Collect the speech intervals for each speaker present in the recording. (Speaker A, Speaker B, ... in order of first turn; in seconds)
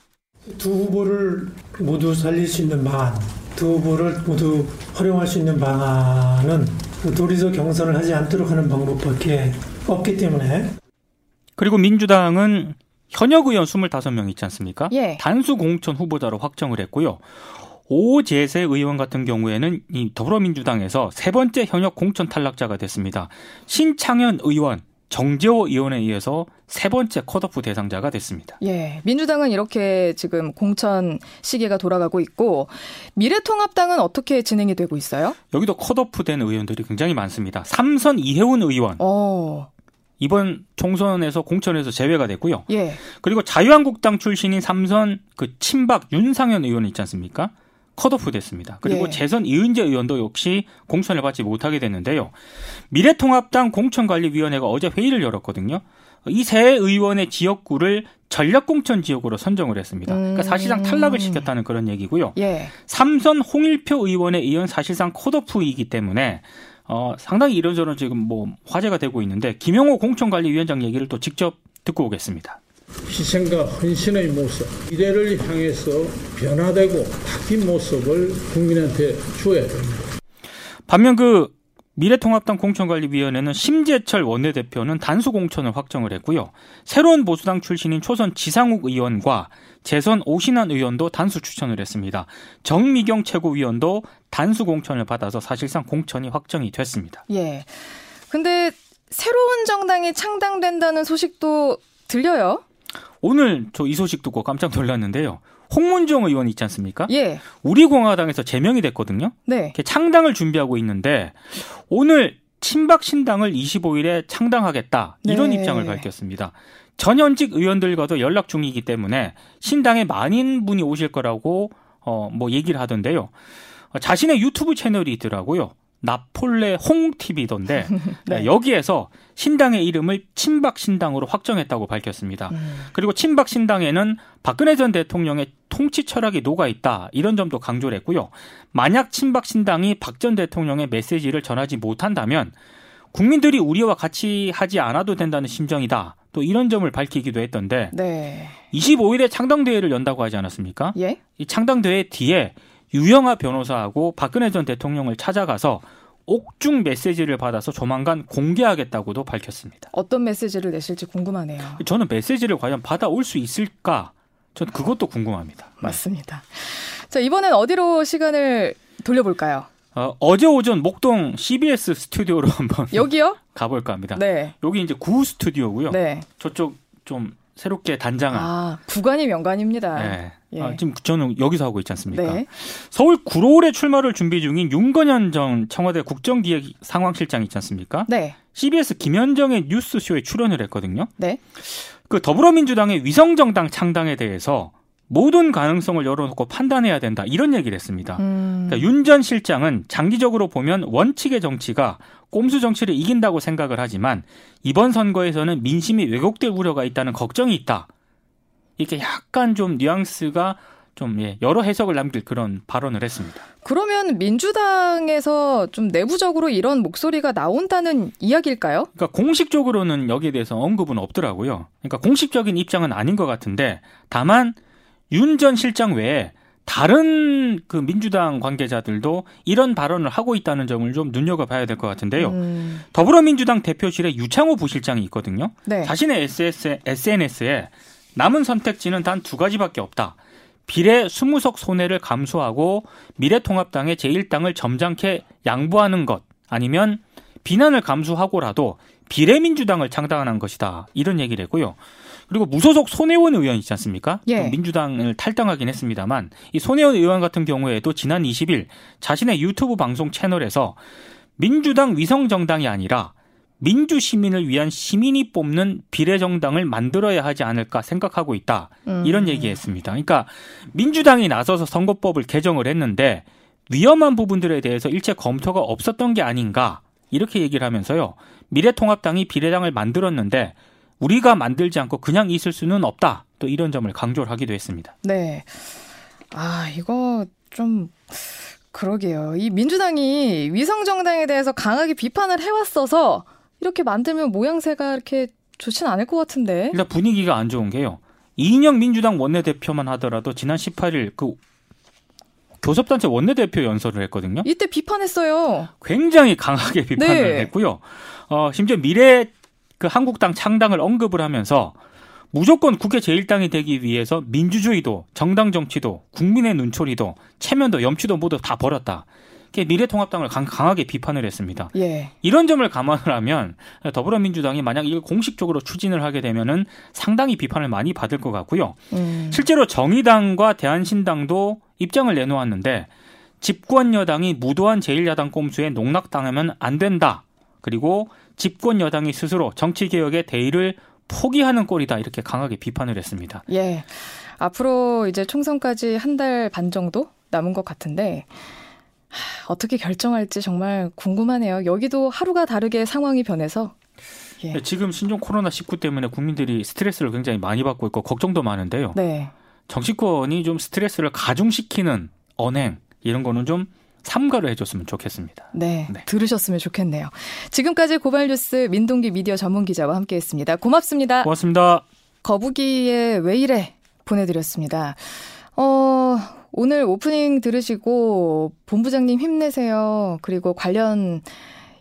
Speaker A: 0.5-10.7
Speaker B: 11.6-17.2, 17.8-28.6, 35.5-39.0, 40.2-52.3, 52.9-72.6, 80.9-97.2, 103.2-123.3, 123.9-142.5, 143.1-147.9, 148.7-159.9, 161.8-166.0, 169.9-178.5, 180.0-191.1, 191.6-207.9, 208.8-213.4, 219.0-224.6, 225.1-232.4, 232.9-240.2, 240.7-251.8, 252.3-260.8, 261.4-284.9, 296.7-301.4, 302.6-304.5, 305.8-311.8, 312.3-328.8, 329.3-332.9, 333.4-343.4, 354.5-359.0, 359.7-366.0, 371.2-371.9
Speaker C: 14.9-15.2, 28.6-35.4, 39.0-39.7, 42.7-43.0, 48.8-49.2, 60.1-61.5, 62.4-62.7, 97.3-102.6, 107.1-107.4, 109.5-109.8, 115.2-116.1, 128.0-128.5, 132.5-132.9, 147.9-148.6, 159.9-161.8, 165.8-169.7, 172.9-173.4, 174.2-174.5, 175.9-176.3, 178.3-180.8, 182.1-182.5, 188.1-188.4, 198.2-198.9, 213.6-218.9, 232.2-232.8, 235.7-235.9, 254.3-254.6, 268.9-269.6, 285.0-285.6, 286.3-296.8, 304.4-305.7, 307.0-307.5, 321.7-322.1, 328.9-329.4, 343.5-348.3, 349.1-353.8, 358.9-359.3, 365.5-371.3, 372.2-381.3
Speaker D: 73.1-80.0